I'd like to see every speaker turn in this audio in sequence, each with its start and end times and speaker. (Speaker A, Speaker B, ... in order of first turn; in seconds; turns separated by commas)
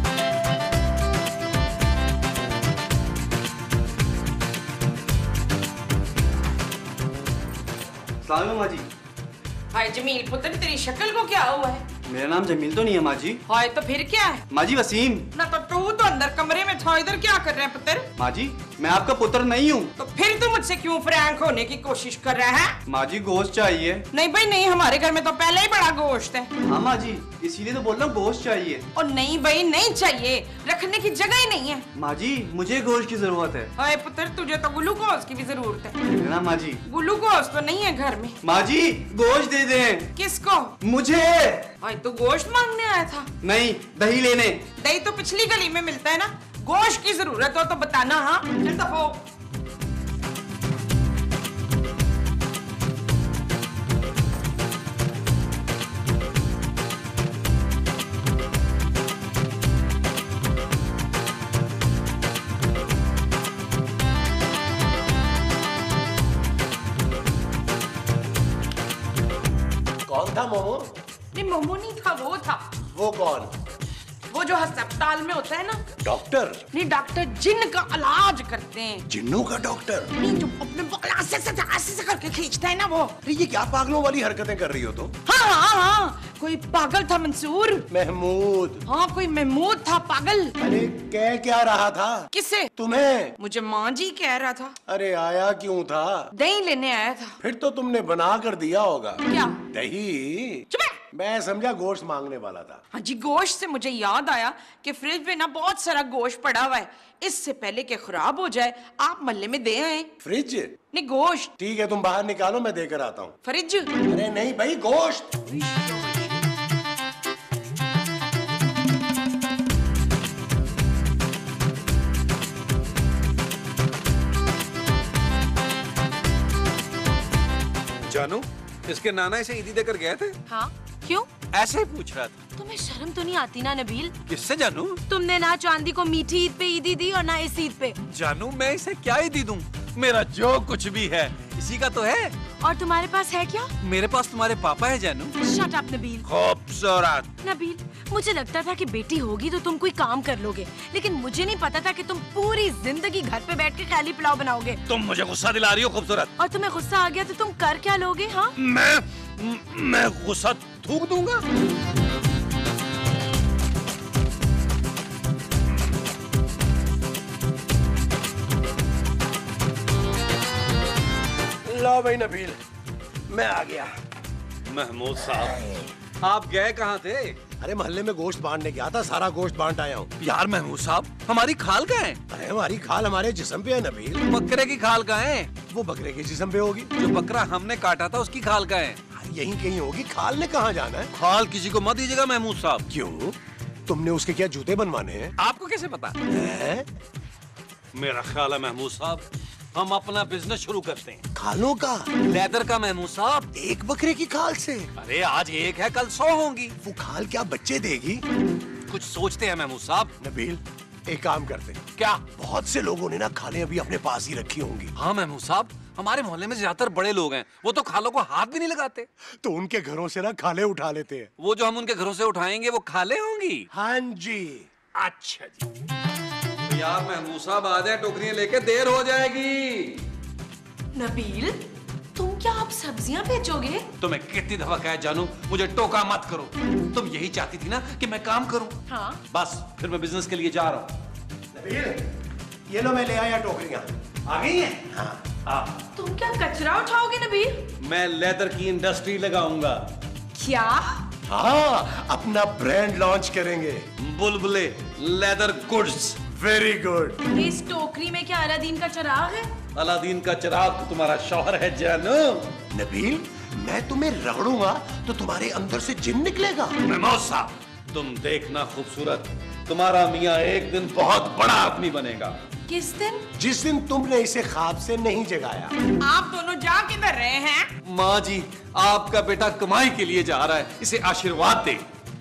Speaker A: 8.2-8.9, Speaker B: 9.7-11.8, Speaker A: 12.0-13.4, Speaker B: 13.4-14.5, Speaker A: 14.5-15.2, Speaker B: 15.3-18.1, Speaker A: 18.2-19.9, Speaker B: 20.0-22.8, Speaker A: 22.9-24.1, Speaker B: 24.1-26.5, Speaker A: 26.6-28.9, Speaker B: 28.9-31.8, Speaker A: 31.9-33.7, Speaker B: 33.8-36.0, Speaker A: 36.1-36.8, Speaker B: 36.8-38.4, Speaker A: 38.4-40.1, Speaker B: 40.1-40.8, Speaker A: 40.8-41.7, Speaker B: 41.8-43.3, Speaker A: 43.4-44.6, Speaker B: 44.8-49.2, Speaker C: 70.0-70.9, Speaker B: 71.3-72.7, Speaker C: 72.8-73.5, Speaker B: 74.3-75.8, Speaker C: 76.0-76.6, Speaker B: 76.7-79.0, Speaker C: 79.1-80.1, Speaker B: 80.2-83.2, Speaker C: 83.2-85.1, Speaker B: 85.2-87.8, Speaker C: 87.9-88.8, Speaker B: 88.9-90.5, Speaker C: 90.6-93.3, Speaker B: 92.3-92.7, Speaker B: 93.4-94.7, Speaker C: 94.9-96.3, Speaker B: 96.3-97.3, Speaker C: 97.4-102.8, Speaker B: 99.2-99.6, Speaker B: 100.7-101.0, Speaker B: 102.9-110.1, Speaker C: 110.2-110.8, Speaker B: 110.9-111.5, Speaker C: 111.6-113.3, Speaker B: 113.4-114.0, Speaker C: 114.0-115.4, Speaker B: 115.5-116.4, Speaker D: 128.1-130.4, Speaker E: 130.5-131.3, Speaker D: 131.5-132.4, Speaker E: 132.6-134.1, Speaker D: 134.2-135.0, Speaker E: 135.1-138.0, Speaker D: 138.1-142.3, Speaker E: 142.6-143.7, Speaker D: 143.8-145.3, Speaker E: 145.4-146.2, Speaker D: 146.2-147.3, Speaker E: 147.4-154.8, Speaker D: 154.9-156.3, Speaker E: 156.4-158.5, Speaker D: 158.6-161.4, Speaker C: 171.6-172.6, Speaker C: 173.3-173.9, Speaker D: 174.6-177.4, Speaker C: 177.6-180.1, Speaker D: 180.2-182.2, Speaker C: 182.3-184.2, Speaker D: 184.2-185.5, Speaker C: 185.7-186.9, Speaker D: 186.9-189.0, Speaker C: 189.1-191.1, Speaker D: 191.1-192.9, Speaker C: 192.9-195.3, Speaker D: 195.4-196.2, Speaker C: 196.3-196.9, Speaker D: 197.9-201.2, Speaker C: 201.3-202.1, Speaker D: 202.2-203.5, Speaker C: 203.5-204.9, Speaker D: 205.0-206.8, Speaker C: 206.8-208.2, Speaker D: 208.9-210.1, Speaker C: 210.2-214.9, Speaker D: 215.0-219.1, Speaker C: 219.4-221.3, Speaker D: 221.4-223.7, Speaker C: 223.7-224.7, Speaker D: 224.9-225.6, Speaker D: 226.6-230.0, Speaker E: 230.9-231.6, Speaker E: 232.1-233.8, Speaker D: 234.0-238.8, Speaker E: 238.9-239.2, Speaker D: 239.3-240.9, Speaker C: 241.5-242.0, Speaker C: 242.7-243.9, Speaker D: 244.2-244.8, Speaker C: 244.9-245.2, Speaker D: 245.4-245.7, Speaker E: 245.9-247.5, Speaker D: 247.8-249.8, Speaker E: 250.3-251.0, Speaker C: 251.3-253.8, Speaker D: 254.0-256.2, Speaker C: 256.3-257.2, Speaker E: 257.3-259.5, Speaker D: 259.7-262.5, Speaker C: 262.7-266.7, Speaker D: 266.8-272.4, Speaker E: 272.7-273.2, Speaker C: 273.4-275.8, Speaker B: 276.0-277.7, Speaker D: 277.9-281.8